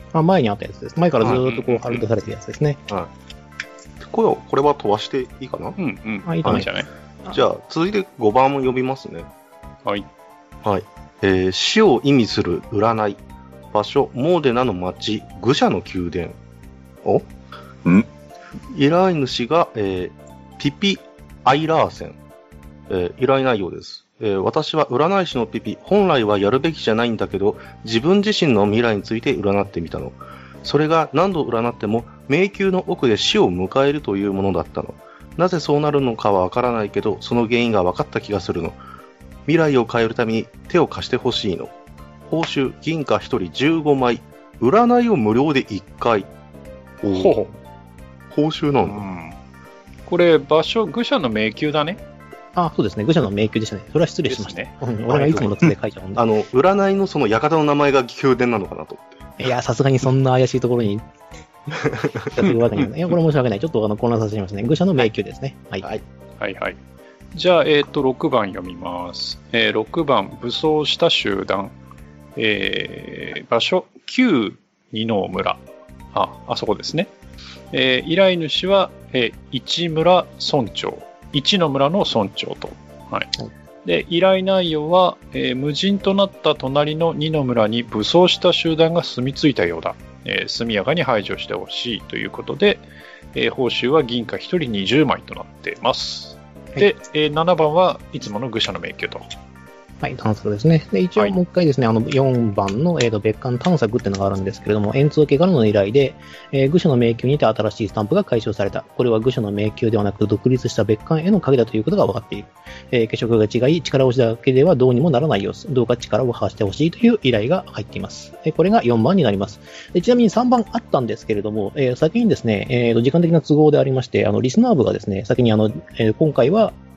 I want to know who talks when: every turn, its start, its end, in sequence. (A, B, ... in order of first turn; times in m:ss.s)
0:00.1-0:02.8 A
0:01.2-0:02.1 B
0:04.0-0:05.8 C
0:05.8-0:06.9 B
0:06.3-0:06.7 A
0:07.3-0:09.3 C
0:10.6-0:13.2 C
0:13.7-0:16.4 C
0:18.7-0:22.2 C
0:22.9-0:38.8 C
0:39.5-0:41.7 C
0:42.3-0:46.3 C
0:47.0-0:47.4 C
0:47.1-0:47.5 B
0:48.3-0:49.0 C
0:48.8-0:49.4 B
0:50.1-0:52.0 B
0:52.6-0:56.2 A
0:54.3-0:54.7 B
0:55.1-0:59.2 C
0:59.4-1:01.0 A
1:02.3-1:05.8 A
1:06.4-1:06.8 B
1:07.3-1:11.7 B
1:12.4-1:15.6 B
1:16.1-1:17.1 B
1:17.7-1:23.3 B
1:23.8-1:39.3 B
1:40.0-2:06.8 A